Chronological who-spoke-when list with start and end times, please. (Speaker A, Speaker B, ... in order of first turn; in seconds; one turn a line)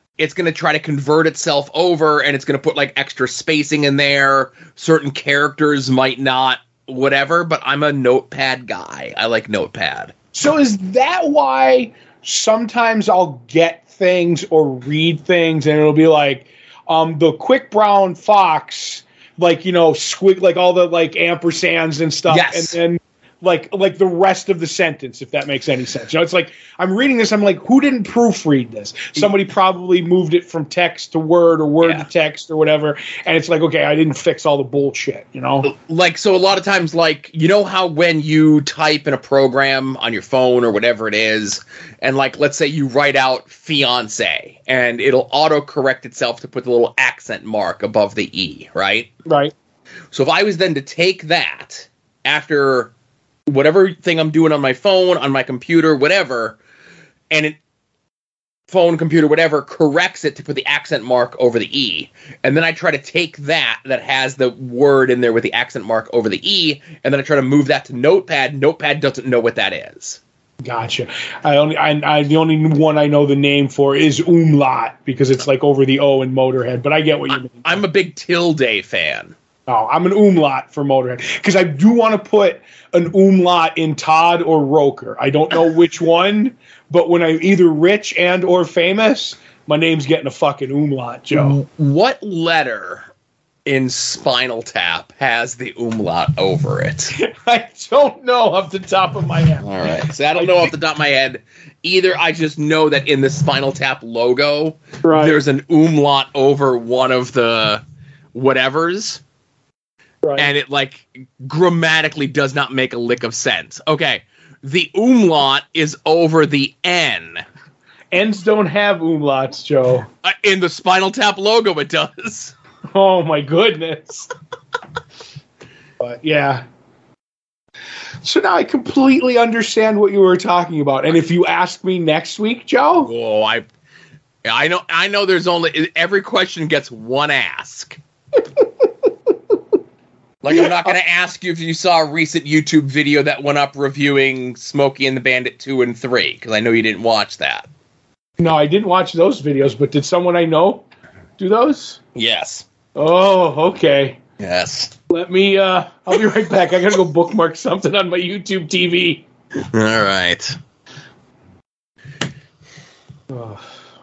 Speaker A: 0.2-10.1
Speaker B: 10.3-35.7
Speaker A: 22.3-22.8
Speaker A: 35.6-49.1
Speaker B: 49.3-49.5
Speaker A: 50.1-52.9
Speaker A: 53.5-56.6
Speaker A: 57.3-57.6
Speaker A: 58.7-70.2
Speaker B: 70.6-77.8
Speaker A: 77.3-79.3
Speaker B: 79.7-91.6
Speaker A: 91.3-93.1
Speaker A: 93.7-97.2
Speaker B: 97.2-99.7
Speaker A: 99.6-107.8
Speaker B: 100.3-100.7
Speaker B: 105.0-105.4
Speaker A: 108.3-109.2
Speaker B: 110.2-110.5
Speaker A: 110.4-117.4
Speaker B: 118.1-120.1
Speaker A: 120.2-122.5
Speaker B: 122.9-124.3
Speaker B: 126.0-126.7
Speaker B: 128.2-133.1
Speaker A: 133.1-133.7
Speaker A: 134.4-138.0
Speaker A: 140.4-147.7
Speaker B: 140.5-140.9
Speaker B: 148.4-150.8
Speaker B: 151.4-152.0
Speaker A: 152.2-152.7
Speaker B: 152.9-154.2
Speaker A: 154.4-154.9
Speaker B: 155.1-159.2
Speaker A: 159.6-160.6
Speaker B: 163.3-163.6